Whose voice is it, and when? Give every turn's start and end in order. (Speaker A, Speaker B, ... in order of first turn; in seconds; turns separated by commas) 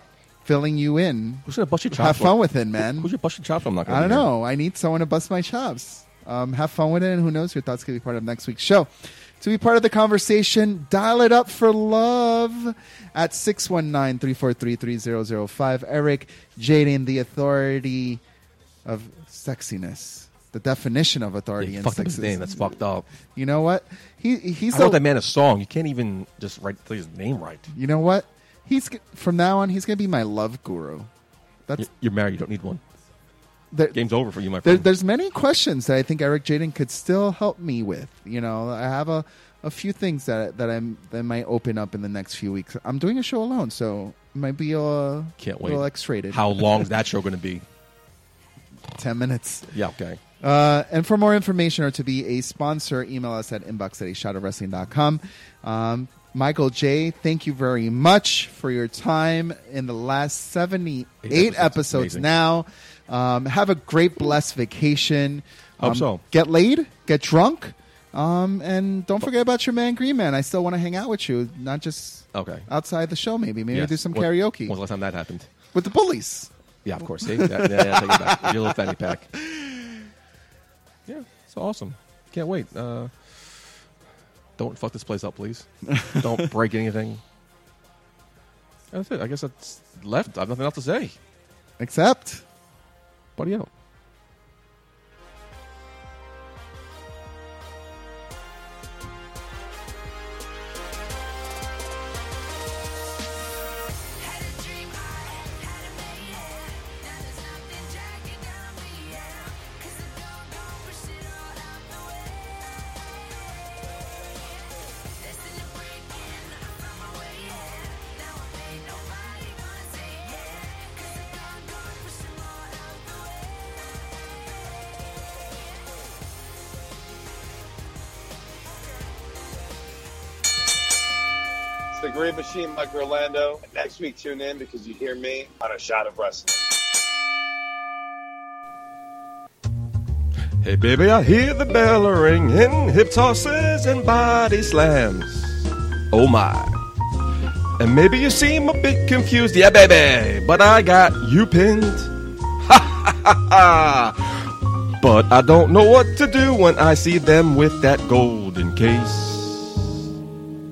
Speaker A: 0.4-3.1, Speaker B: 1.4-4.3, Speaker A: 3.9-18.2, Speaker A: 18.9-22.8, Speaker B: 21.6-23.1, Speaker A: 23.3-25.0, Speaker B: 24.7-27.7, Speaker A: 27.7-31.1, Speaker B: 31.8-32.8, Speaker A: 33.7-34.0, Speaker B: 33.9-34.9, Speaker A: 34.6-46.9, Speaker B: 45.4-47.6, Speaker A: 49.0-49.7, Speaker B: 49.7-50.2, Speaker A: 50.4-74.8, Speaker B: 61.2-62.3, Speaker B: 65.8-66.2, Speaker B: 72.3-72.7, Speaker B: 73.7-75.5, Speaker A: 75.7-76.5, Speaker B: 76.8-79.3, Speaker A: 77.0-80.0, Speaker B: 81.1-83.3, Speaker B: 84.6-87.2, Speaker A: 85.9-86.5, Speaker B: 88.9-91.2, Speaker A: 91.8-92.4, Speaker B: 93.4-93.7, Speaker C: 104.2-113.7, Speaker C: 114.5-123.7, Speaker D: 131.9-136.7, Speaker B: 140.6-146.8, Speaker B: 147.8-159.9